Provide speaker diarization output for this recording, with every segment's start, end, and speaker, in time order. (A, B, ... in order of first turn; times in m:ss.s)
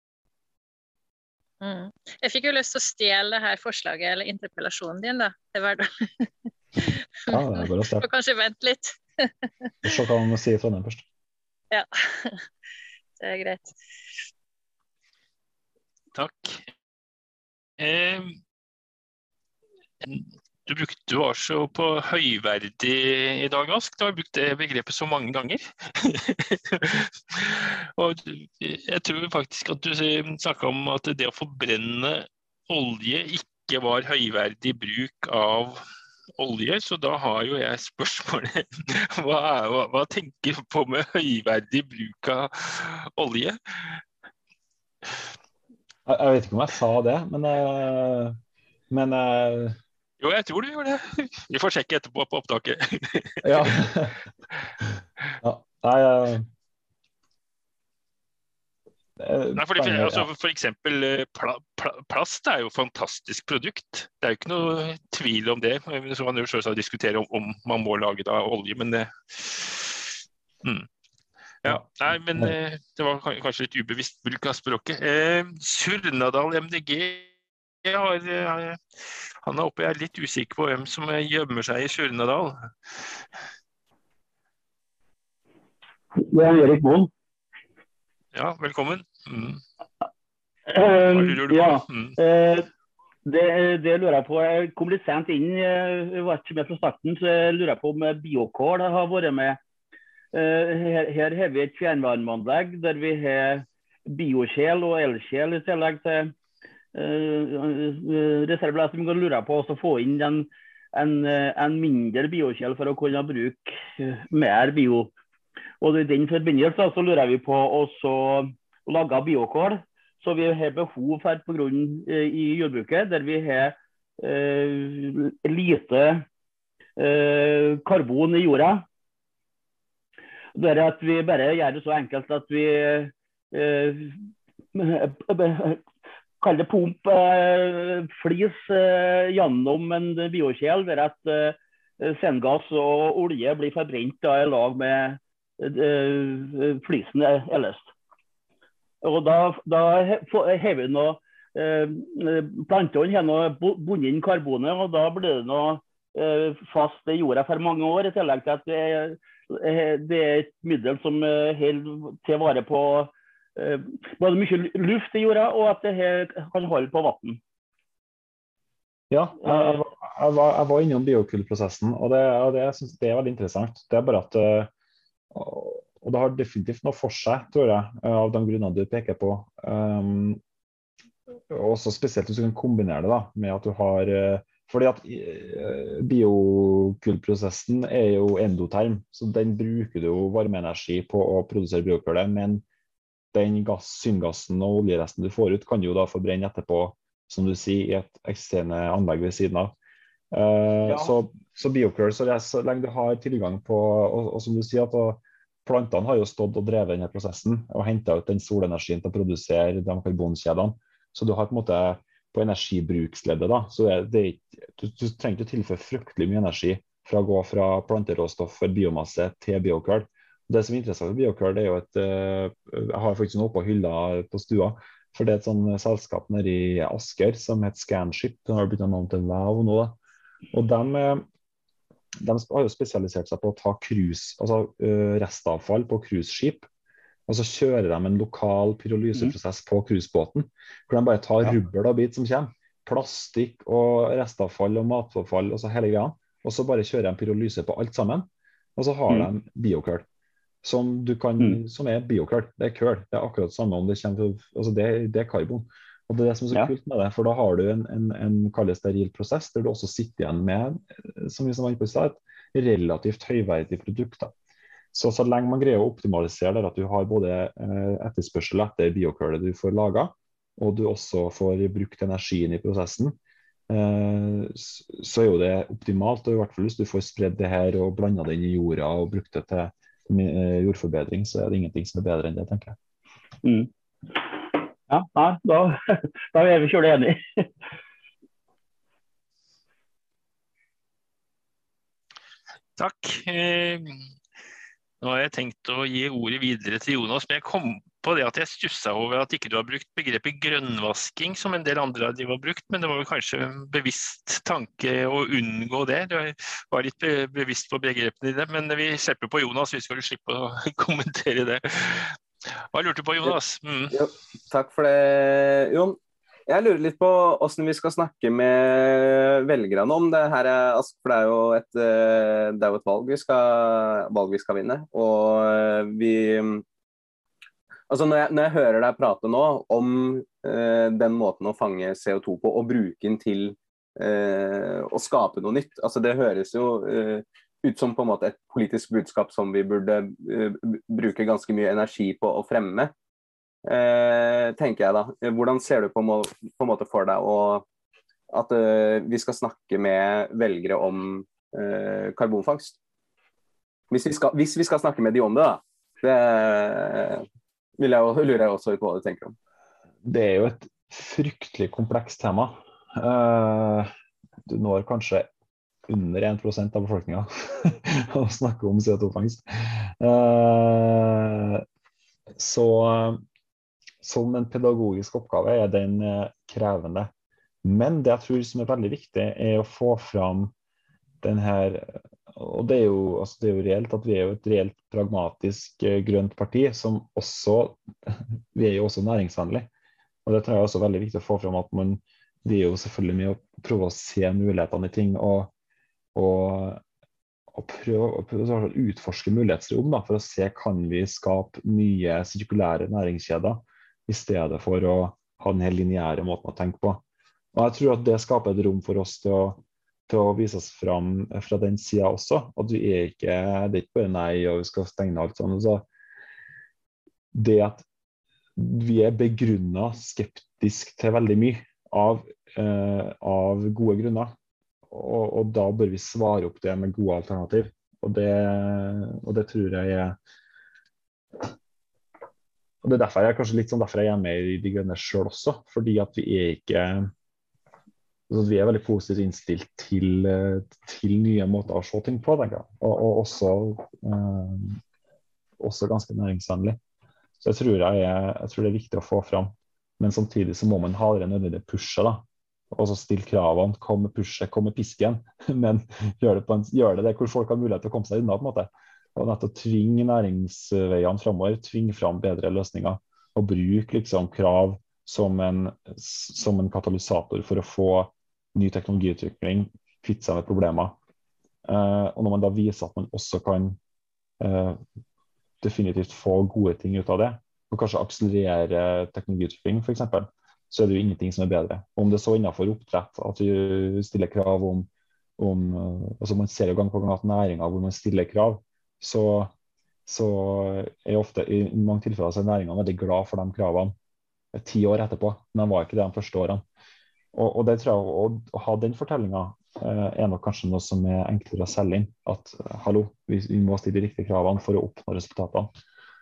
0:01.6-0:09.9 A
0:07.3-0:08.1 B
0:09.8-0:11.0 B
0:11.7-0:12.4 A
0:13.2-0:13.7 A
0:16.1-0:16.6 C
0:17.8-0:18.4 C
0:20.0-0:35.8 C
0:36.4-0:44.0 C
0:46.0-0:48.4 B
0:48.9-0:49.8 B
0:50.2-0:53.7 C
0:53.4-0:54.2 B
0:55.4-0:56.5 B
0:59.2-1:00.3 B
0:59.6-1:10.9 C
1:11.6-1:17.3 C
1:17.8-1:22.9 C
1:26.1-1:27.1 D
1:28.3-1:29.6 C
1:30.7-1:32.7 D
1:31.0-1:32.1 C
1:33.2-1:39.6 D
1:40.3-1:46.3 D
1:46.9-1:55.1 D
1:55.8-2:06.2 D
2:07.0-2:08.8 D
2:10.6-2:14.2 D
2:14.7-2:15.8 D
2:16.4-2:27.9 D
2:29.0-2:47.4 D
2:49.1-2:54.7 B
2:49.4-2:49.8 D
2:55.3-3:00.4 B
3:01.5-3:12.6 B
3:13.3-3:19.7 B
3:20.3-3:50.0 B
3:50.5-3:51.2 B
3:52.2-3:56.7 B
3:57.3-4:10.0 B
4:10.6-4:24.3 B
4:24.9-4:33.2 B
4:33.7-4:42.8 B
4:43.4-4:47.4 D
4:52.8-4:54.0 C
4:55.0-5:14.0 C
5:13.9-5:26.6 E
5:27.9-5:42.9 E
5:43.7-5:47.6 E
5:48.3-5:52.8 E
5:53.9-5:57.2 E
5:57.8-5:59.3 E
6:00.0-6:03.9 B
6:04.4-6:05.3 B
6:05.9-6:11.6 B
6:12.4-6:13.2 B
6:14.0-6:17.1 B
6:17.6-6:20.5 B
6:21.2-6:29.7 B
6:30.2-6:35.5 B
6:36.1-6:36.8 B
6:37.5-6:47.0 B
6:47.5-6:55.9 B
6:57.3-6:57.8 B
6:58.6-7:04.3 B
7:04.9-7:10.2 B
7:12.8-7:17.1 B
7:18.3-7:24.8 B
7:25.6-7:26.8 B
7:27.4-7:51.0 B
7:51.6-7:53.8 B
7:54.4-7:54.8 B
7:55.6-8:09.5 B
8:10.0-8:13.9 B
8:14.5-8:16.6 B
8:17.3-8:25.7 B